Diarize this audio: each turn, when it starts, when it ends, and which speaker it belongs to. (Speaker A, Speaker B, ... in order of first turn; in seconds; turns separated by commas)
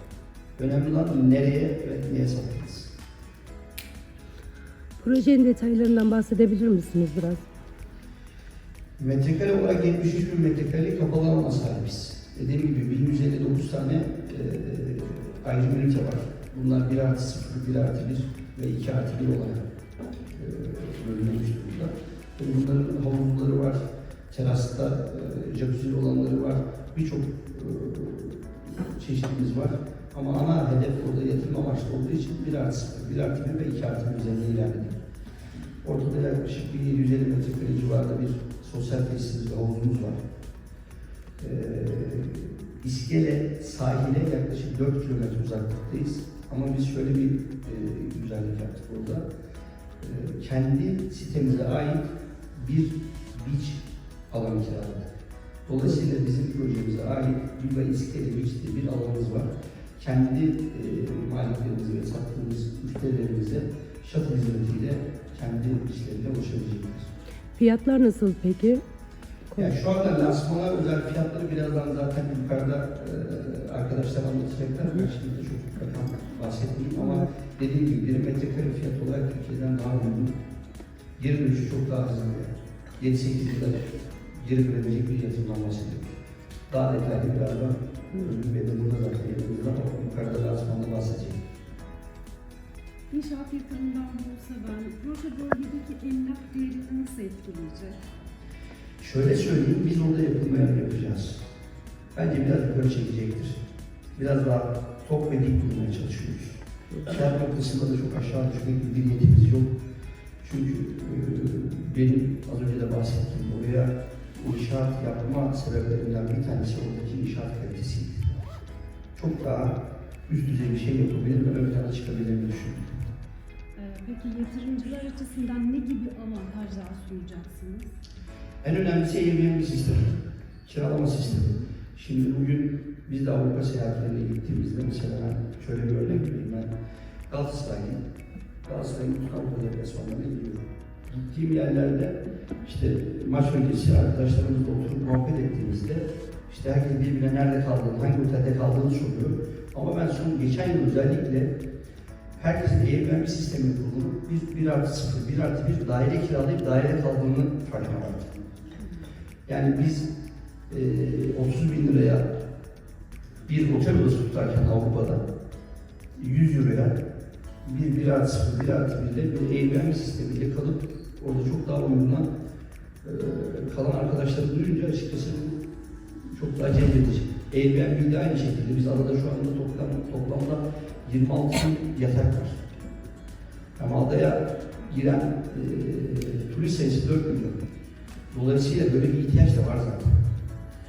Speaker A: 0.6-2.9, Speaker B: 5.0-7.5, Speaker A: 9.0-19.6, Speaker A: 20.3-35.0, Speaker A: 35.8-40.2, Speaker A: 41.4-49.2, Speaker A: 50.0-55.1, Speaker A: 55.6-67.1, Speaker B: 67.5-68.8, Speaker A: 69.6-80.3, Speaker B: 77.0-77.2, Speaker A: 81.2-86.2, Speaker A: 86.7-91.4, Speaker C: 93.1-98.0, Speaker A: 99.0-101.5, Speaker A: 102.1-103.6, Speaker A: 104.2-109.7, Speaker A: 110.4-118.3, Speaker A: 119.2-123.0, Speaker C: 123.8-127.9, Speaker A: 128.6-136.7, Speaker A: 137.3-138.0, Speaker A: 138.6-140.7, Speaker A: 141.3-151.5, Speaker A: 152.3-158.4, Speaker A: 159.5-160.1, Speaker A: 160.7-162.2, Speaker A: 163.4-165.2, Speaker A: 166.2-166.9, Speaker A: 167.6-172.3, Speaker A: 173.0-182.6, Speaker A: 183.8-187.5, Speaker A: 188.3-190.2